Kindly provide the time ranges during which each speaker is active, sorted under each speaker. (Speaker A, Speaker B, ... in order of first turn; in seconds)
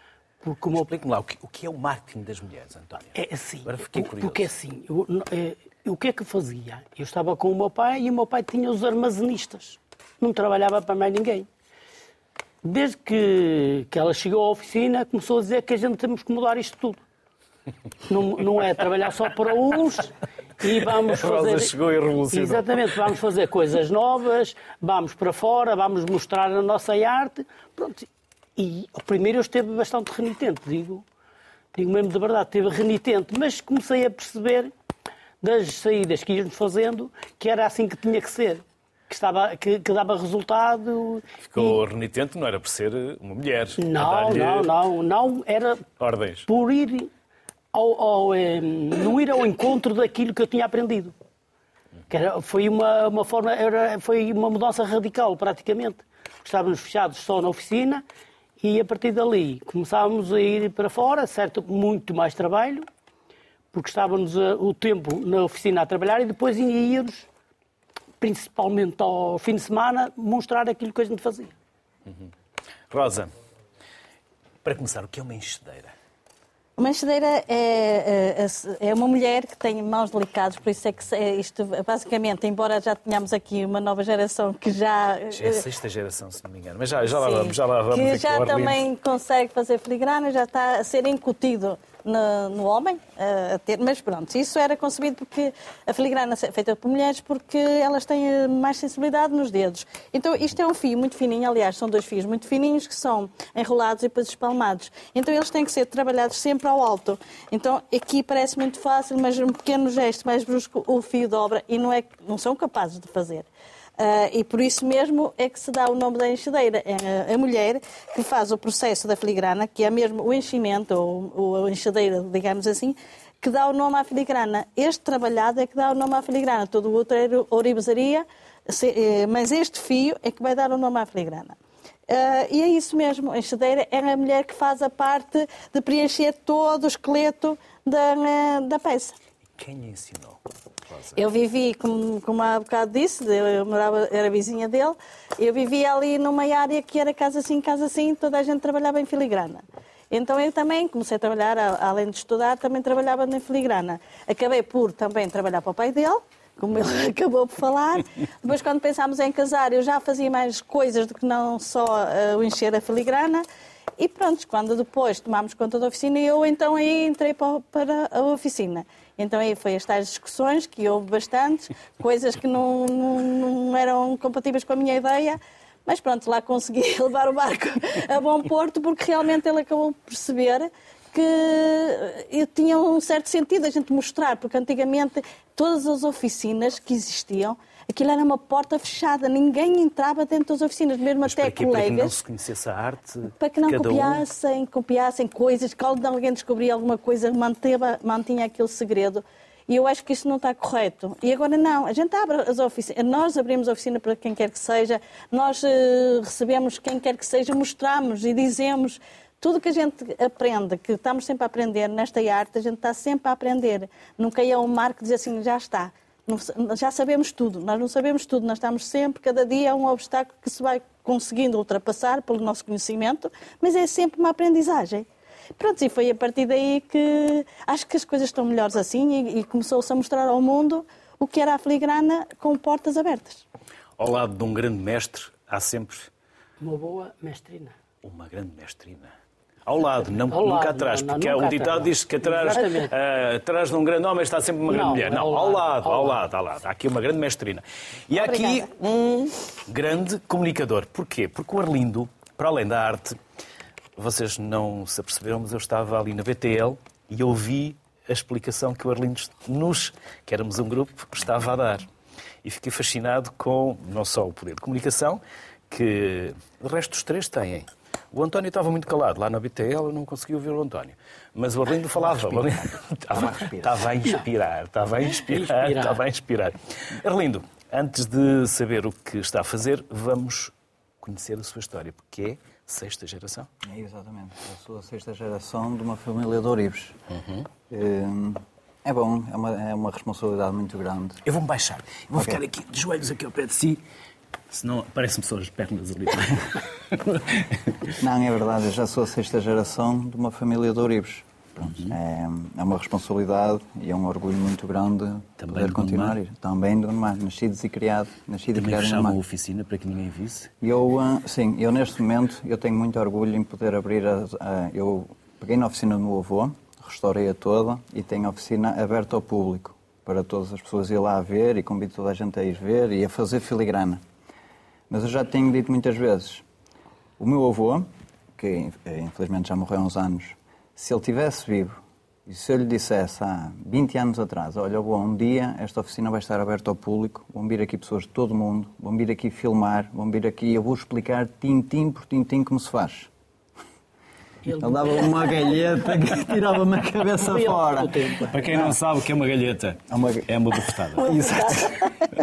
Speaker A: 0.4-0.9, 3.1-11.5, 12.6-17.0, 18.1-21.7, 22.3-31.0, 31.7-34.7, 35.4-41.8, 43.8-45.9, 46.5-47.1, 47.7-51.1, 52.1-58.0, 58.6-62.9, 63.7-67.3, 68.2-71.5, 236.6-237.8, 240.2-242.9, 244.7-246.2, 275.3-276.0, 344.4-345.6, 347.2-348.5
Speaker B: 0.7-4.5, 20.7-23.0, 41.4-44.7, 46.0-46.5, 72.9-73.3, 74.6-75.9, 85.3-88.8, 139.6-141.2, 191.2-194.2, 234.0-236.1, 238.0-239.1, 239.7-253.2, 253.9-261.9, 262.4-283.5, 291.2-293.8, 294.5-297.9, 301.6-301.9, 305.4-306.2, 308.5-310.5, 348.3-351.2
Speaker C: 76.8-85.7, 87.1-113.5, 114.0-131.6, 132.1-139.2, 141.2-163.4, 164.0-192.1, 193.4-225.1, 225.6-233.4, 248.1-248.7, 351.1-351.4
Speaker D: 272.0-273.9, 283.6-287.0, 287.7-291.2, 292.1-292.4, 298.0-309.2, 310.6-324.0, 324.9-326.4, 327.2-343.1, 344.5-348.8, 349.9-351.9